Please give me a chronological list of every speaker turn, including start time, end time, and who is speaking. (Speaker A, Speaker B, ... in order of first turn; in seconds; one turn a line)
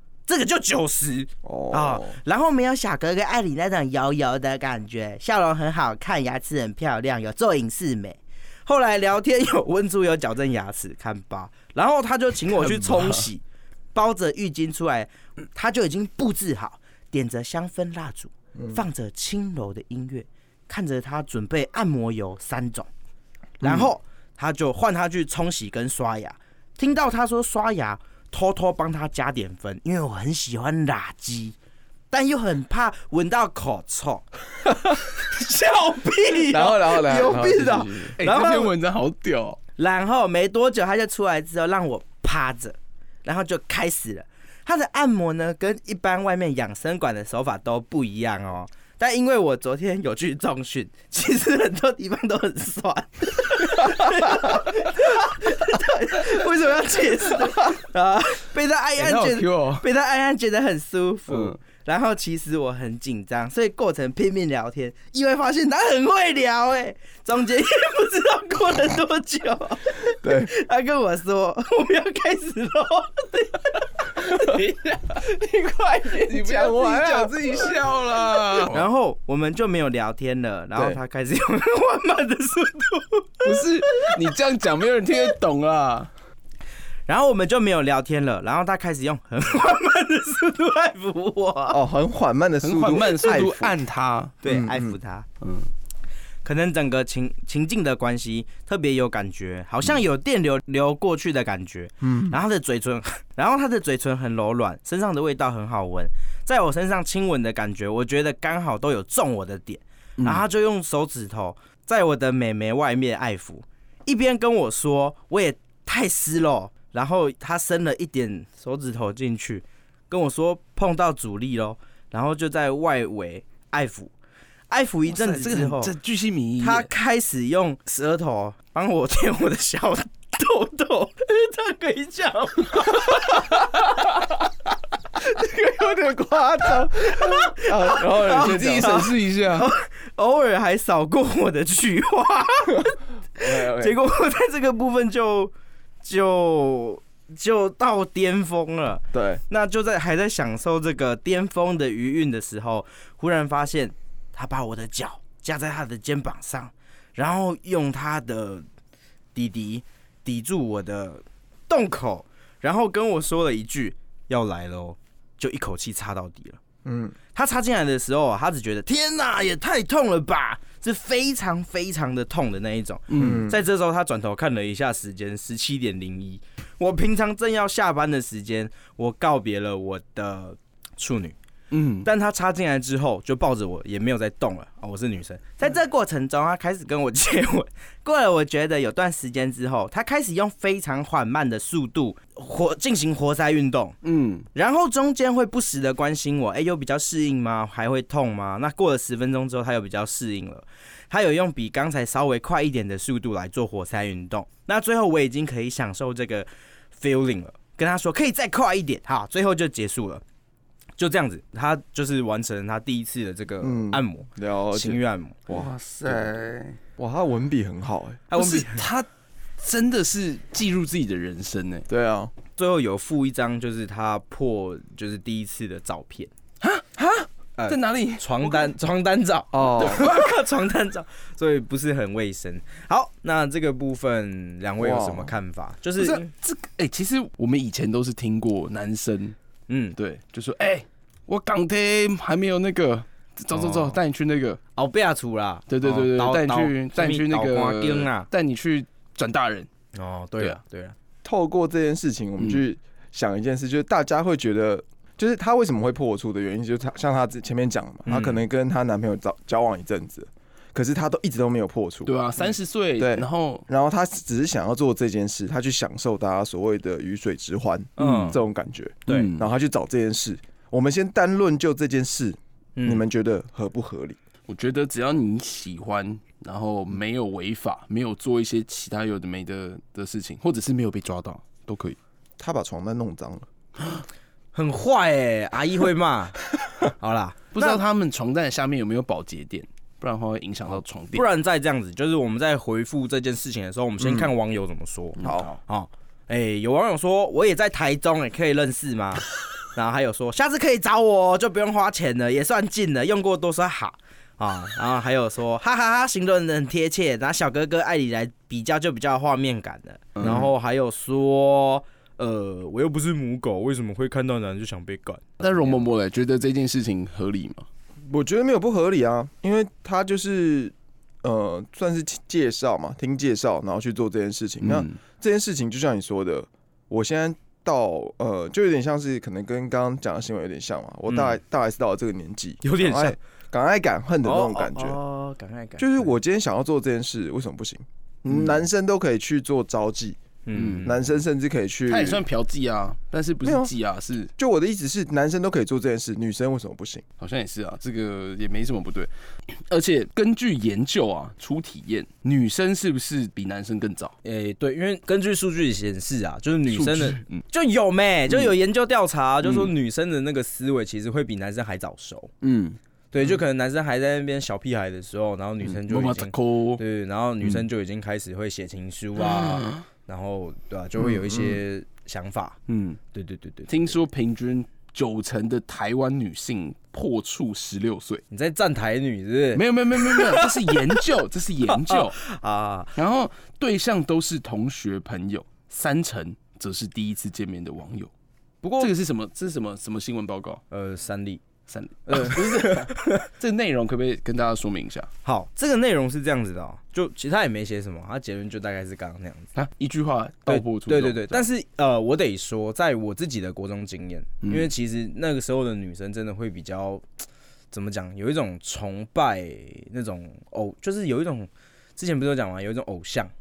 Speaker A: 0.3-13.4
Speaker B: 1.4-2.2
Speaker C: 12.7-13.2
Speaker A: 13.9-22.9
Speaker B: 18.6-18.8
Speaker A: 23.6-31.6
Speaker A: 32.1-34.3
Speaker A: 34.9-38.7
Speaker B: 36.5-38.1
Speaker C: 36.9-39.6
Speaker A: 39.8-77.2
Speaker C: 59.0-59.9
Speaker C: 61.3-61.6
Speaker B: 70.2-70.5
Speaker C: 76.2-78.9
Speaker B: 76.7-77.3
Speaker A: 78.7-84.2
Speaker C: 83.4-86.1
Speaker A: 87.1-91.8
Speaker B: 91.7-93.8
Speaker C: 92.6-94.4
Speaker A: 94.4-95.3
Speaker B: 94.4-95.0
Speaker C: 95.4-95.7
Speaker A: 96.4-124.1
Speaker B: 102.0-102.4
Speaker C: 110.2-110.4
Speaker A: 124.7-125.9
Speaker C: 125.1-126.9
Speaker A: 126.6-134.1
Speaker A: 135.5-136.0
Speaker B: 135.8-139.1
Speaker A: 136.6-145.5
Speaker C: 138.1-139.7
Speaker B: 143.4-144.0
Speaker A: 146.0-158.7
Speaker B: 149.1-149.4
Speaker A: 159.3-166.6
Speaker B: 166.8-167.2
Speaker A: 167.3-181.4
Speaker C: 173.1-173.5
Speaker B: 173.2-173.6
Speaker C: 181.7-182.1
Speaker A: 182.0-194.0
Speaker C: 194.0-194.5
Speaker A: 194.5-210.2
Speaker A: 211.0-215.4
Speaker B: 213.6-216.3
Speaker C: 215.5-216.8
Speaker B: 217.0-218.3
Speaker A: 218.3-218.8
Speaker C: 218.3-219.1
Speaker C: 219.6-221.9
Speaker B: 221.9-222.3
Speaker A: 222.6-226.3
Speaker C: 226.6-228.7
Speaker A: 227.6-236.3
Speaker B: 229.5-230.1
Speaker C: 230.0-230.3
Speaker B: 234.8-235.3
Speaker C: 236.0-239.3
Speaker A: 239.7-240.0
Speaker C: 240.0-244.6
Speaker A: 243.5-244.0
Speaker A: 244.8-248.3
Speaker C: 245.7-249.7
Speaker A: 249.9-250.9
Speaker B: 251.2-274.2
Speaker A: 258.1-258.4
Speaker C: 262.1-263.7
Speaker A: 268.0-268.4
Speaker C: 268.0-268.4
Speaker C: 269.1-269.5
Speaker A: 272.8-273.0
Speaker C: 274.5-282.0
Speaker B: 282.4-283.5
Speaker A: 284.5-287.8
Speaker C: 287.5-291.3
Speaker A: 291.1-315.8
Speaker B: 294.0-294.3
Speaker C: 295.2-295.6
Speaker B: 295.2-295.5
Speaker C: 310.2-310.5
Speaker B: 310.2-310.5
Speaker C: 315.4-317.7
Speaker B: 318.1-335.0
Speaker C: 324.6-325.0
Speaker A: 331.1-331.4
Speaker A: 332.6-333.2
Speaker A: 334.2-336.1
Speaker B: 335.8-340.2
Speaker C: 338.3-338.6
Speaker A: 340.4-341.0
Speaker C: 340.5-340.9
Speaker B: 340.8-342.3
Speaker C: 341.9-344.3
Speaker B: 343.4-343.7
Speaker B: 344.4-347.0
Speaker C: 347.2-354.1
Speaker A: 354.2-362.3
Speaker C: 356.7-357.4
Speaker C: 359.4-359.7
Speaker C: 362.4-362.8
Speaker A: 363.1-372.6
Speaker C: 365.6-366.8
Speaker C: 369.2-369.8
Speaker B: 371.0-371.6
Speaker C: 372.7-373.0
Speaker A: 373.1-374.0
Speaker C: 373.7-378.2
Speaker A: 378.3-381.0
Speaker C: 379.6-382.2
Speaker A: 381.7-382.9
Speaker C: 383.0-388.1
Speaker A: 388.6-388.9
Speaker C: 388.8-390.6
Speaker A: 390.7-391.4
Speaker C: 391.7-395.1
Speaker A: 392.1-393.2
Speaker A: 395.2-399.5
Speaker C: 399.6-401.5
Speaker A: 400.5-407.0
Speaker C: 404.4-404.7
Speaker A: 407.7-413.3